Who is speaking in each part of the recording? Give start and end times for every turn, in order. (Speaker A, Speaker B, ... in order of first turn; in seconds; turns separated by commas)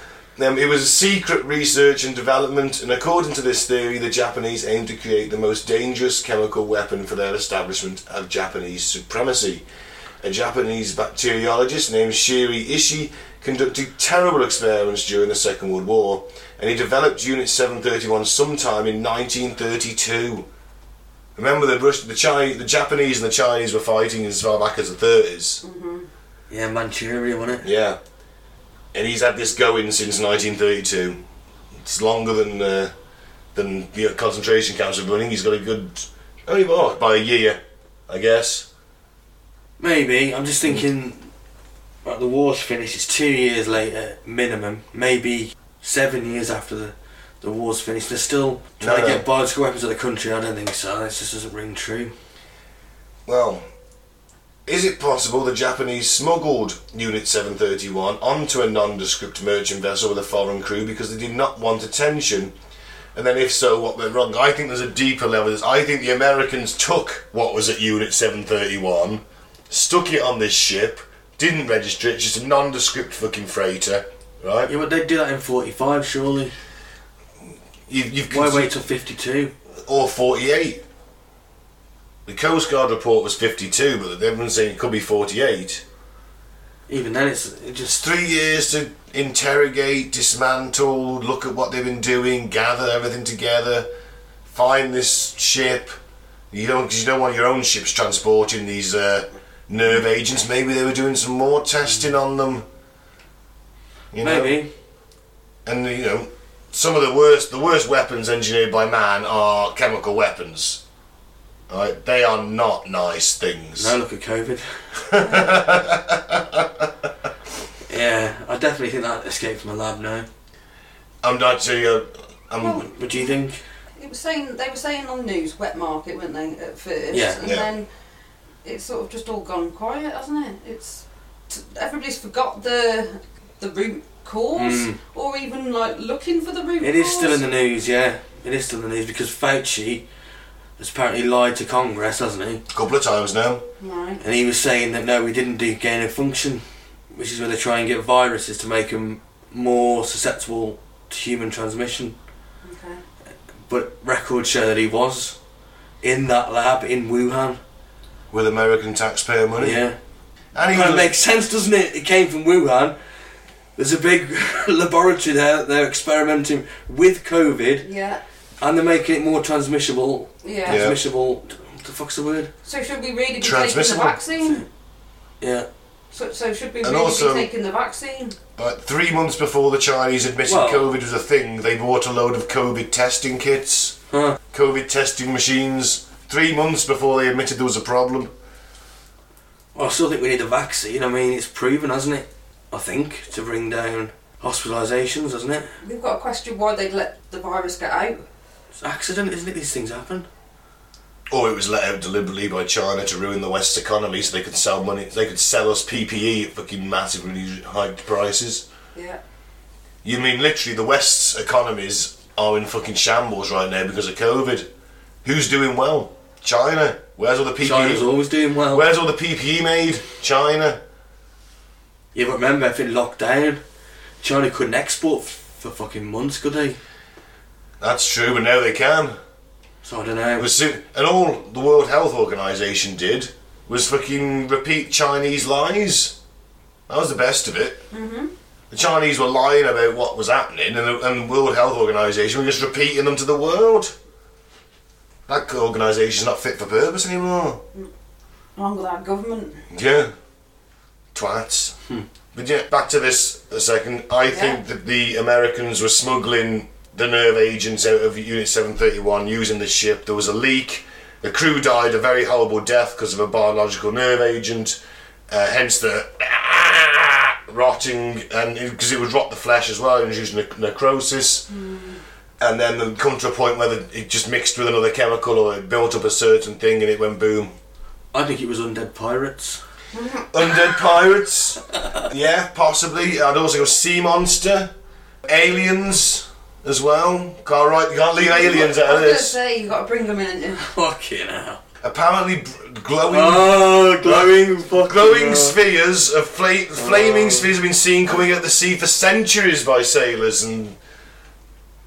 Speaker A: 0.4-9.7, Speaker A: 10.2-20.5, Speaker A: 21.4-25.6, Speaker B: 25.6-26.1, Speaker C: 26.5-27.7, Speaker A: 27.6-28.0, Speaker A: 28.9-31.2, Speaker A: 31.8-32.9, Speaker A: 33.5-38.7, Speaker C: 39.8-41.3, Speaker C: 42.0-52.1, Speaker A: 48.8-49.2, Speaker A: 53.3-53.6, Speaker A: 54.7-62.5, Speaker A: 63.1-74.7, Speaker C: 74.7-76.5, Speaker A: 77.9-78.7, Speaker C: 78.3-79.5, Speaker A: 79.9-80.8, Speaker A: 82.3-85.8, Speaker C: 86.9-88.0, Speaker A: 88.0-93.9, Speaker A: 94.5-95.9, Speaker A: 96.5-102.7, Speaker A: 104.1-104.6, Speaker C: 104.2-104.7, Speaker A: 105.7-110.8, Speaker A: 111.7-114.0, Speaker C: 113.8-114.8, Speaker A: 115.0-116.9, Speaker C: 117.9-120.3, Speaker A: 121.2-122.9, Speaker B: 122.6-123.4, Speaker C: 122.9-123.6, Speaker B: 124.0-127.9, Speaker C: 127.1-127.4, Speaker A: 127.4-127.7, Speaker B: 128.6-137.4, Speaker C: 134.6-135.0, Speaker C: 136.8-140.0, Speaker C: 140.8-142.6, Speaker A: 142.7-143.6, Speaker B: 143.8-144.2, Speaker C: 144.2-152.1, Speaker B: 152.6-153.0, Speaker C: 153.7-155.4, Speaker C: 156.0-157.6, Speaker A: 158.3-159.8, Speaker C: 159.6-160.0, Speaker A: 160.5-161.1, Speaker C: 160.7-162.9, Speaker C: 163.8-167.9, Speaker B: 167.8-168.2, Speaker C: 168.6-172.5, Speaker B: 170.4-170.8, Speaker A: 170.7-171.0, Speaker B: 172.7-174.6, Speaker A: 173.4-174.2, Speaker C: 174.4-174.7, Speaker C: 175.4-175.7, Speaker B: 176.1-178.4, Speaker A: 176.8-177.5, Speaker A: 178.6-184.0, Speaker C: 180.5-180.9, Speaker C: 184.1-184.4, Speaker A: 184.5-188.3, Speaker C: 189.8-195.7, Speaker B: 195.8-198.2, Speaker C: 198.8-200.3, Speaker A: 201.3-208.7, Speaker B: 208.9-209.2, Speaker A: 210.0-214.7, Speaker A: 215.2-218.1, Speaker C: 217.6-218.8, Speaker A: 218.7-220.8, Speaker C: 222.1-223.6, Speaker C: 224.2-226.8, Speaker A: 227.8-229.2, Speaker C: 229.8-230.5, Speaker A: 230.4-236.2, Speaker A: 236.9-237.8, Speaker B: 237.9-238.3, Speaker A: 238.7-243.9, Speaker A: 245.3-247.6, Speaker B: 248.6-249.7, Speaker A: 249.7-250.1, Speaker A: 251.1-251.8, Speaker A: 252.3-264.8, Speaker B: 254.3-254.6, Speaker A: 265.3-271.5, Speaker B: 271.5-272.0, Speaker A: 272.4-277.5, Speaker C: 278.1-279.6, Speaker B: 279.9-280.7, Speaker A: 280.3-284.7, Speaker A: 285.3-289.4, Speaker B: 288.2-290.7, Speaker C: 290.6-291.6, Speaker A: 291.8-300.8, Speaker C: 293.1-295.6, Speaker C: 296.8-297.6